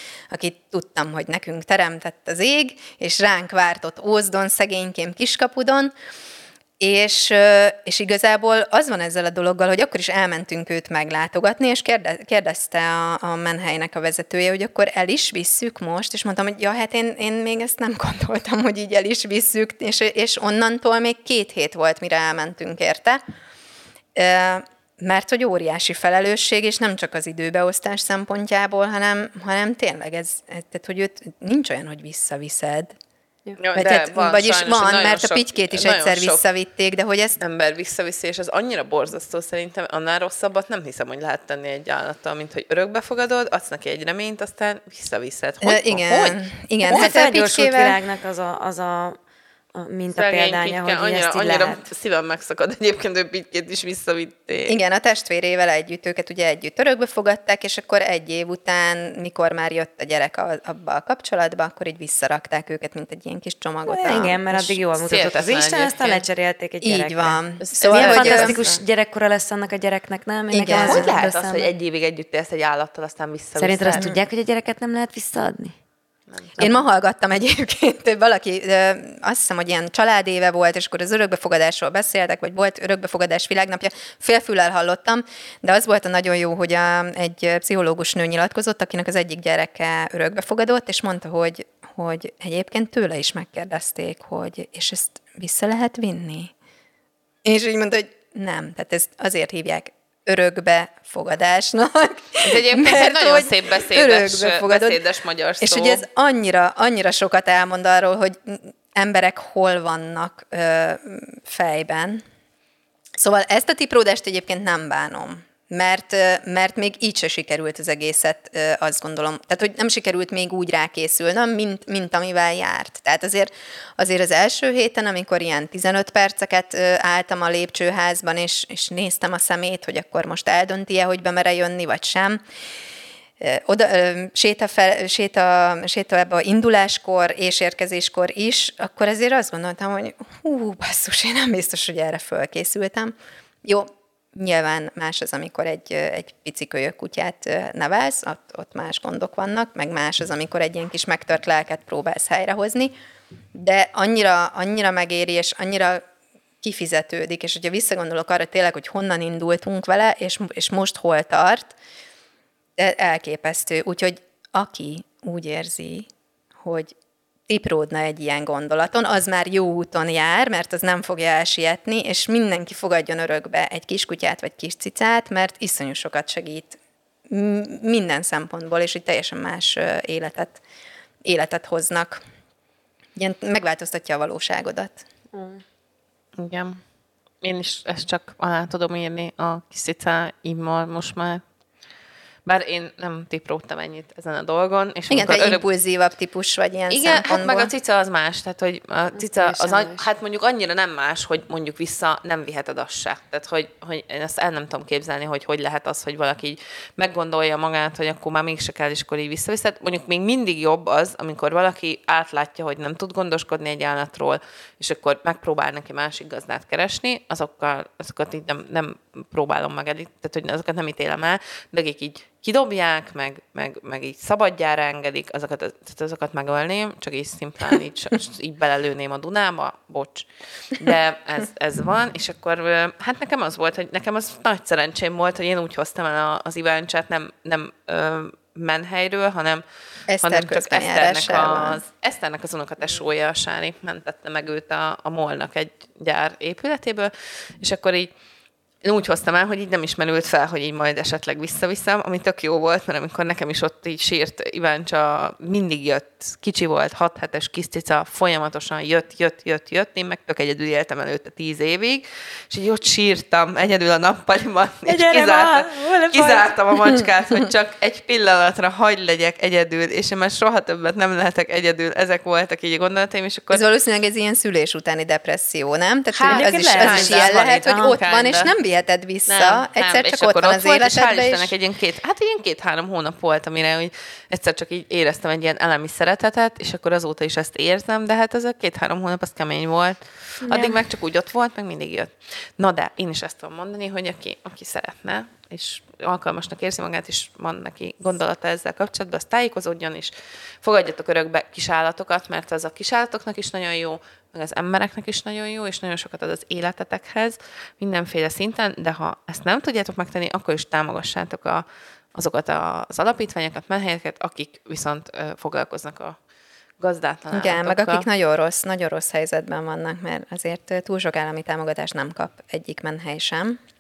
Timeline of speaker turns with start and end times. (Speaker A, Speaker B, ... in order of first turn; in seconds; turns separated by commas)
Speaker A: 0.3-5.9, Speaker A: 6.8-23.2, Speaker A: 24.1-33.0, Speaker B: 33.6-36.5, Speaker A: 33.7-37.4, Speaker B: 37.4-46.4, Speaker A: 45.6-48.0, Speaker C: 46.8-49.2, Speaker C: 49.8-51.8, Speaker B: 50.1-54.8, Speaker A: 54.7-64.8, Speaker C: 63.9-71.7, Speaker B: 65.0-66.3, Speaker A: 66.8-68.6, Speaker B: 67.7-68.8, Speaker A: 70.5-71.1, Speaker B: 70.8-74.1, Speaker C: 73.6-75.8, Speaker B: 76.3-76.8, Speaker A: 76.6-96.5, Speaker A: 97.4-105.0, Speaker B: 102.4-106.0, Speaker A: 105.6-112.2, Speaker A: 113.2-132.4, Speaker A: 133.4-152.9, Speaker A: 153.5-156.1, Speaker A: 156.6-161.7, Speaker A: 162.8-166.9, Speaker A: 167.5-180.6, Speaker A: 181.2-182.2, Speaker A: 183.2-185.0, Speaker C: 185.3-185.6, Speaker B: 186.4-186.8, Speaker B: 187.4-191.4, Speaker B: 192.4-195.6, Speaker A: 195.1-197.7, Speaker B: 196.9-239.6, Speaker C: 199.2-200.1, Speaker A: 240.1-241.8, Speaker B: 240.2-248.1, Speaker B: 248.8-273.6, Speaker C: 264.9-266.5, Speaker A: 273.5-281.5, Speaker B: 276.2-278.6, Speaker C: 276.2-277.9, Speaker B: 279.3-316.2, Speaker B: 316.8-318.1, Speaker A: 317.3-323.6